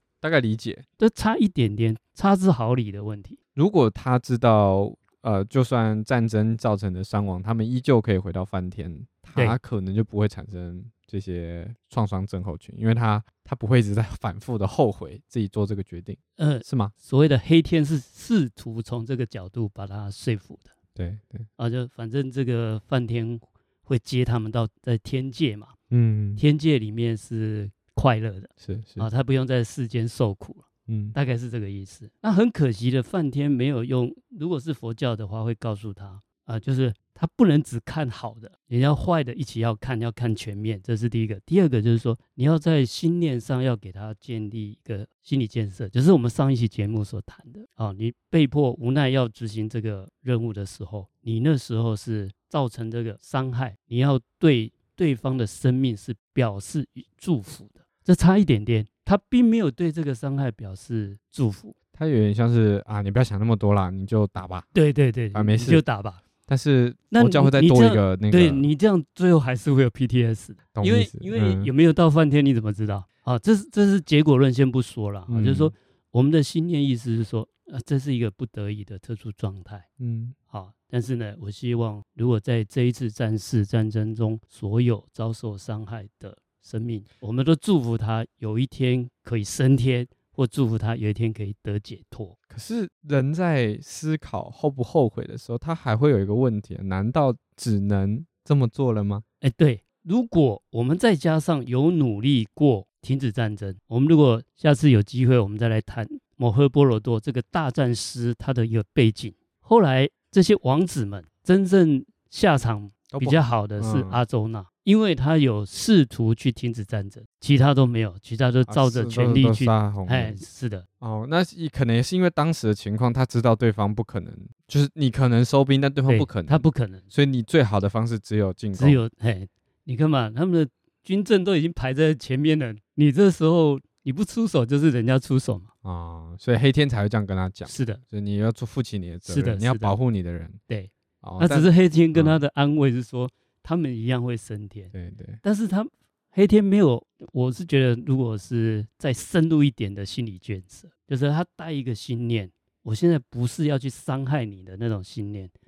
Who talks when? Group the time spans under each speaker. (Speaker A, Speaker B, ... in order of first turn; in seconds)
Speaker A: 0.2-0.8, 3.6-16.9, 21.0-21.5, 25.9-26.4, 28.6-29.1, 30.9-31.1, 61.9-64.7, 65.3-65.8, 66.5-68.7, 70.7-71.7, 75.3-75.7, 80.0-80.3, 92.5-99.2, 113.1-114.2, 118.7-120.4, 121.0-129.0, 135.8-140.6, 141.2-142.4, 144.9-145.4
Speaker B: 1.0-3.4, 16.4-20.7, 21.6-25.8, 26.4-61.8, 64.7-66.2, 67.1-79.9, 80.5-92.4, 99.4-120.8, 126.1-127.0, 128.8-135.7, 137.7-138.0, 139.3-140.0, 140.7-155.5